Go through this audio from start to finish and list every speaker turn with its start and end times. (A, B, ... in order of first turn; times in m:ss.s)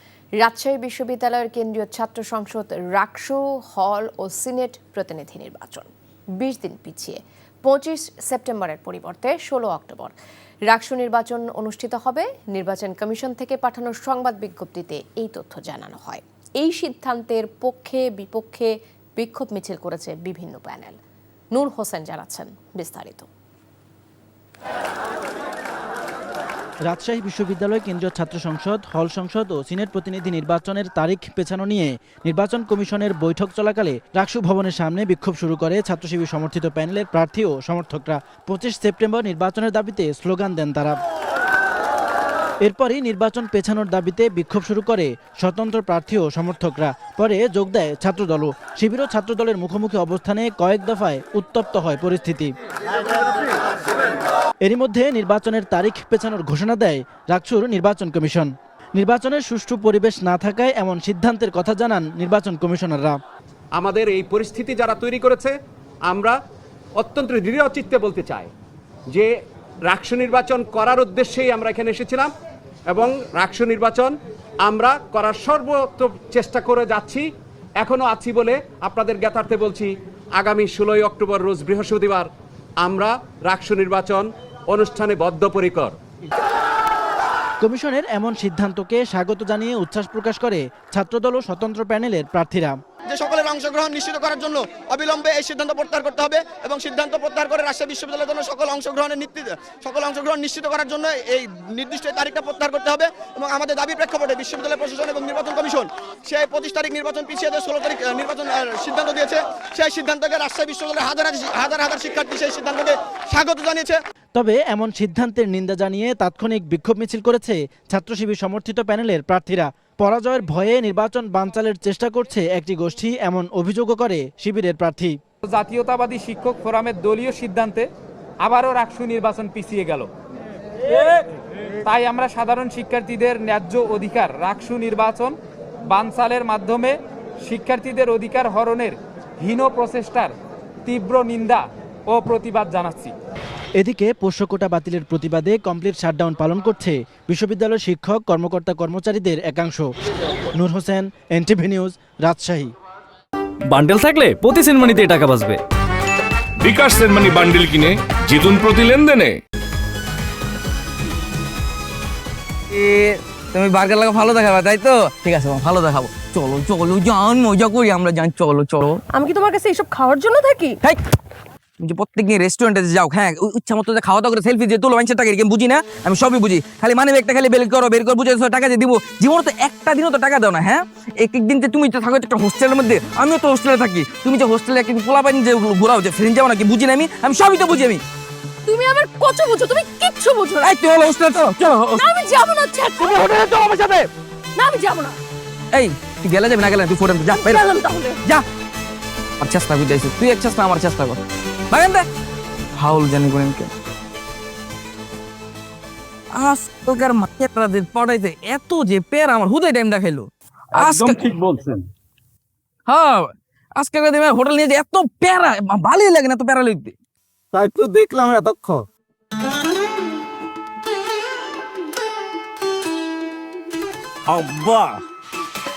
0:00.4-0:05.9 A
0:06.4-0:10.1 A
0:10.7-0:21.0 A
0:21.5-0:23.3 A
0:26.9-0:41.0 B
0:42.6-0:52.5 B
0:54.6-1:03.2 B
1:03.8-1:05.5 C
1:06.1-1:06.4 C
1:07.0-1:08.5 C
1:09.9-1:12.3 C
1:12.9-1:17.3 C
1:17.8-1:22.3 C
1:22.8-1:26.0 C
1:27.6-1:32.8 B
1:33.1-1:54.0 D
1:54.3-2:05.2 B
2:05.4-2:07.9 E
2:08.4-2:10.1 E
2:11.8-2:15.4 E
2:15.9-2:20.3 E
2:20.8-2:23.1 E
2:23.8-2:29.9 B
2:30.5-2:32.7 B
2:33.6-2:35.6 F
2:36.6-2:39.4 G
2:42.7-2:49.0 H
2:49.1-2:50.8 I
2:51.8-3:08.0 H
3:08.6-3:10.7 I
3:10.6-3:12.1 H
3:11.9-3:15.2 I
3:15.7-3:17.6 H
3:17.3-3:18.2 I
3:19.4-3:21.2 H
3:21.7-3:22.1 H
3:22.8-3:23.7 H
3:26.3-3:31.4 H
3:32.9-3:36.9 H
3:37.5-3:38.8 J
3:44.4-3:44.9 J